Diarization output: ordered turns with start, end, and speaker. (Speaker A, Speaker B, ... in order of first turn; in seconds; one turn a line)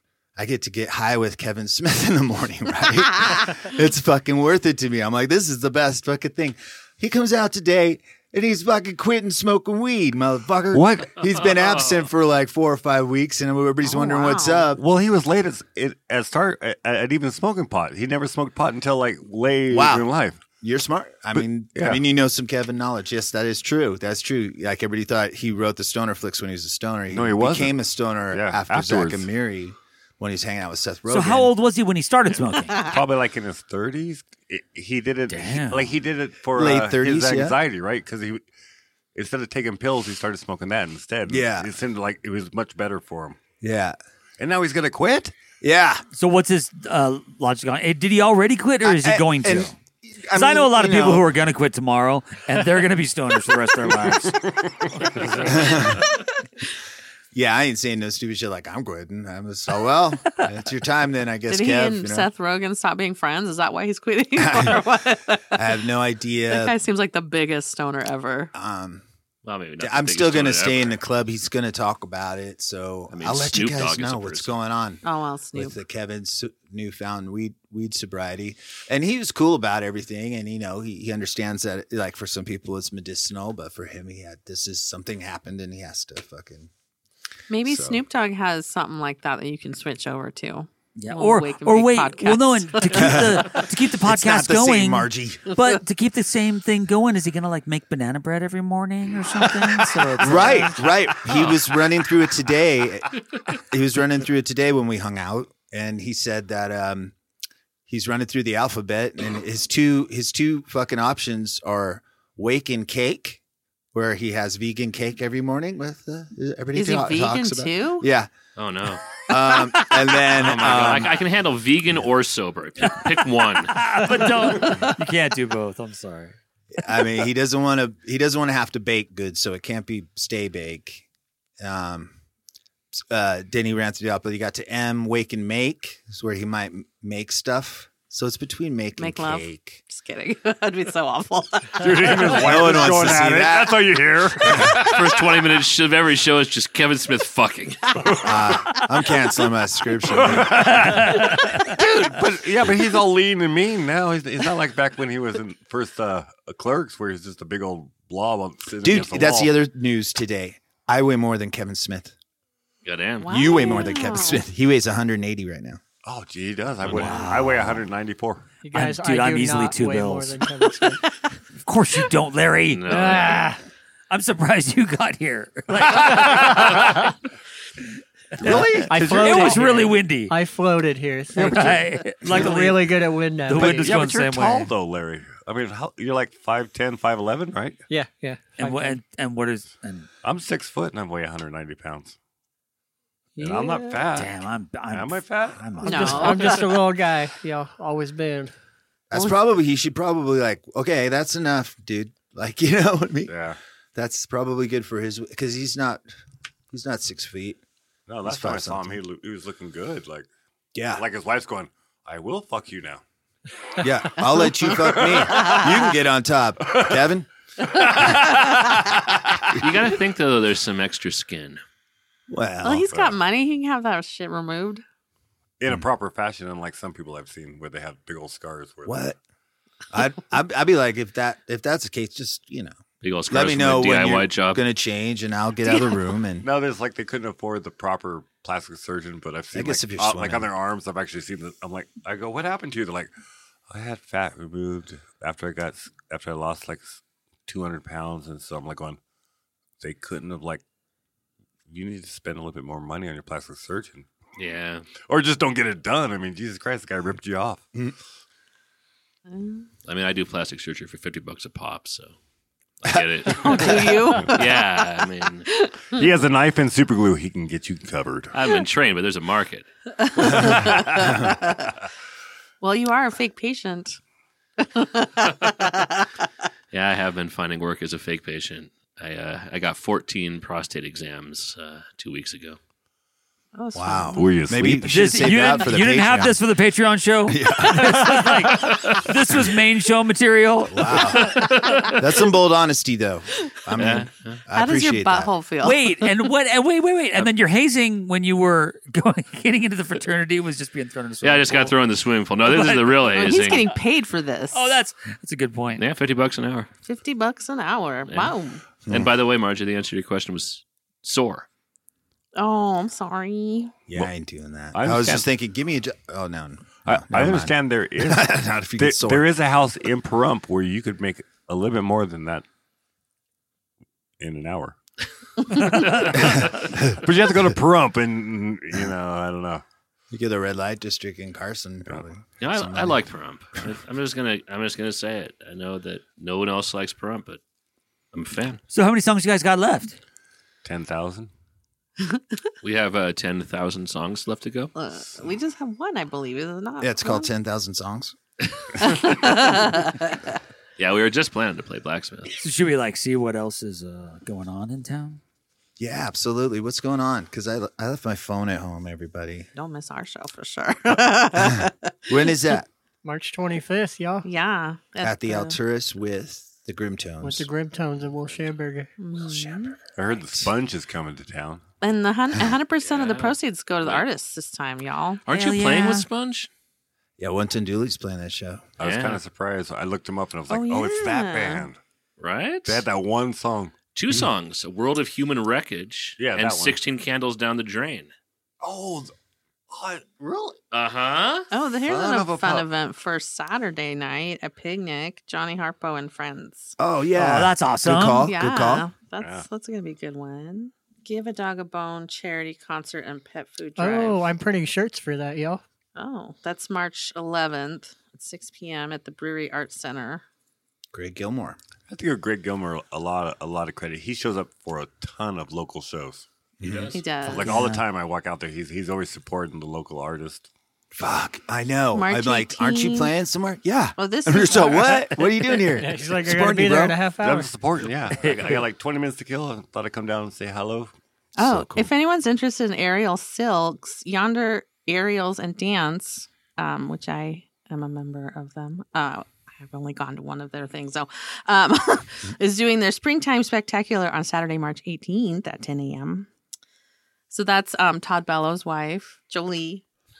Speaker A: 0.3-14.8
Speaker B: 10.7-11.2
Speaker C: 13.8-14.7
Speaker B: 14.7-20.4
Speaker A: 19.7-20.1
Speaker A: 20.6-31.5
Speaker B: 21.3-22.0
Speaker B: 27.1-27.8
Speaker B: 28.3-29.3
Speaker D: 31.1-32.8
Speaker B: 32.8-38.5
Speaker D: 35.3-35.9
Speaker A: 36.5-37.5
Speaker B: 39.1-43.4
Speaker A: 41.3-41.7
Speaker A: 43.6-44.0
Speaker B: 44.4-45.3
Speaker A: 45.6-46.0
Speaker D: 46.1-49.7
Speaker A: 48.8-51.3
Speaker D: 50.3-54.4
Speaker B: 54.0-55.8
Speaker A: 55.4-56.1
Speaker A: 57.3-62.3
Speaker C: 61.5-65.7
Speaker A: 64.4-64.8
Speaker A: 65.5-66.7
Speaker C: 66.5-68.5
Speaker A: 68.5-69.0
Speaker E: 69.4-71.0
Speaker A: 69.8-75.0
Speaker E: 73.1-74.5
Speaker C: 75.0-75.7
Speaker A: 75.5-86.7
Speaker C: 87.5-93.3
Speaker A: 87.7-88.0
Speaker D: 91.0-100.8
Speaker A: 92.9-95.5
Speaker A: 100.2-107.1
Speaker A: 107.9-113.4
Speaker A: 113.9-118.3
Speaker C: 116.7-118.1
Speaker E: 118.6-119.0
Speaker A: 119.3-121.2
Speaker E: 120.2-124.0
Speaker D: 123.7-126.3
Speaker A: 126.8-131.1
Speaker A: 131.6-132.1
Speaker A: 132.9-139.8
Speaker C: 139.0-142.9
Speaker B: 141.8-145.2
Speaker A: 142.3-143.8
Speaker E: 144.7-147.8
Speaker B: 148.1-148.5
Speaker A: 148.2-150.9
Speaker B: 150.1-159.5
Speaker D: 150.8-151.8
Speaker A: 158.8-162.1
Speaker E: 162.8-163.9
Speaker C: 163.2-164.4
Speaker A: 163.3-165.8
Speaker B: 166.0-168.5
Speaker D: 166.9-167.8
Speaker F: 168.6-171.1
Speaker D: 168.7-170.4
Speaker D: 171.6-173.6
Speaker E: 172.7-173.5
Speaker D: 174.1-177.1
Speaker B: 178.4-179.8
Speaker D: 178.4-180.3
Speaker F: 178.9-184.0
Speaker D: 181.3-184.7
Speaker B: 183.5-187.8
Speaker F: 187.9-189.0
Speaker D: 188.6-190.1
Speaker B: 190.2-192.2
Speaker F: 193.4-194.0
Speaker B: 193.4-194.4
Speaker D: 194.1-196.7
Speaker B: 194.9-196.1
Speaker F: 195.8-198.5
Speaker C: 195.8-196.7
Speaker A: 199.1-203.3
Speaker B: 203.3-203.6
Speaker A: 203.9-206.0
Speaker A: 206.7-207.6
Speaker B: 208.1-210.3
Speaker A: 208.2-209.0
Speaker A: 210.7-211.0
Speaker B: 210.9-213.0
Speaker A: 213.8-217.3
Speaker B: 214.7-215.6
Speaker B: 216.7-217.0
Speaker B: 217.6-219.5
Speaker E: 219.6-221.6
Speaker A: 222.3-222.9
Speaker C: 222.6-224.8
Speaker B: 225.6-229.1
Speaker A: 228.8-229.2
Speaker A: 229.9-236.4
Speaker E: 233.0-234.6
Speaker B: 236.4-243.1
Speaker A: 239.5-240.5
Speaker B: 243.7-249.0
Speaker B: 249.8-250.6
Speaker B: 251.7-254.1
Speaker E: 254.3-254.9
Speaker B: 255.0-257.6
Speaker C: 259.3-259.7
Speaker E: 259.9-262.1
Speaker E: 262.8-265.5
Speaker C: 263.4-264.4
Speaker B: 264.1-264.4
Speaker C: 265.5-266.0
Speaker B: 265.9-268.3
Speaker E: 268.3-269.6
Speaker C: 270.0-271.5
Speaker C: 272.6-274.0
Speaker C: 274.6-275.9
Speaker E: 276.7-282.6
Speaker C: 283.5-284.3
Speaker A: 283.7-286.4
Speaker B: 284.1-284.9
Speaker D: 284.6-291.3
Speaker A: 287.3-288.2
Speaker A: 290.7-295.3
Speaker E: 291.3-292.0
Speaker E: 293.8-294.4
Speaker C: 294.5-295.8
Speaker D: 295.6-301.7
Speaker E: 301.2-303.7
Speaker D: 302.4-303.5
Speaker C: 303.1-304.7
Speaker D: 304.5-305.9
Speaker E: 305.8-306.7
Speaker C: 306.9-308.6
Speaker E: 308.1-308.4
Speaker E: 308.9-311.4
Speaker C: 312.3-313.7
Speaker A: 313.9-319.3
Speaker B: 314.7-315.3
Speaker B: 316.9-322.4
Speaker B: 324.2-324.8
Speaker D: 325.6-326.1
Speaker B: 325.7-329.6
Speaker E: 326.0-326.3
Speaker A: 326.3-326.9
Speaker A: 330.1-333.0
Speaker E: 332.4-337.4
Speaker E: 338.1-338.6
Speaker D: 338.7-340.0
Speaker B: 340.6-341.3
Speaker E: 342.6-344.7
Speaker C: 344.7-347.3
Speaker A: 346.8-348.1
Speaker E: 348.8-349.2
Speaker C: 348.8-350.2
Speaker E: 350.8-352.3
Speaker D: 352.4-355.2
Speaker A: 355.8-359.5
Speaker C: 359.5-362.2
Speaker A: 361.5-362.7
Speaker F: 363.0-364.3
Speaker C: 364.2-365.6
Speaker A: 365.0-367.5
Speaker F: 367.2-368.9
Speaker C: 369.0-369.8
Speaker A: 369.2-369.7
Speaker B: 369.9-371.6
Speaker C: 371.8-375.2
Speaker E: 372.8-374.0
Speaker E: 375.2-376.5
Speaker D: 375.3-376.1
Speaker A: 377.2-378.6
Speaker B: 378.8-381.8
Speaker E: 378.8-379.2
Speaker C: 380.5-381.6
Speaker E: 382.2-382.9
Speaker B: 382.6-384.3
Speaker E: 383.9-388.1
Speaker B: 386.2-386.8
Speaker B: 388.6-389.1
Speaker B: 389.7-390.6
Speaker E: 390.7-391.5
Speaker C: 391.5-396.7
Speaker B: 391.8-392.7
Speaker A: 396.8-398.9
Speaker D: 397.1-398.3
Speaker C: 398.2-404.2
Speaker B: 399.2-399.4
Speaker F: 403.8-405.6
Speaker C: 405.9-410.2
Speaker A: 410.9-411.6
Speaker B: 411.9-420.5
Speaker A: 416.6-417.0
Speaker E: 416.6-417.0
Speaker C: 416.9-417.5
Speaker D: 417.4-417.8
Speaker A: 420.9-427.0
Speaker C: 421.9-423.1
Speaker C: 424.0-425.1
Speaker F: 425.7-427.5
Speaker B: 427.2-430.9
Speaker D: 428.2-428.6
Speaker C: 431.4-446.3
Speaker A: 431.4-431.9
Speaker C: 447.3-449.8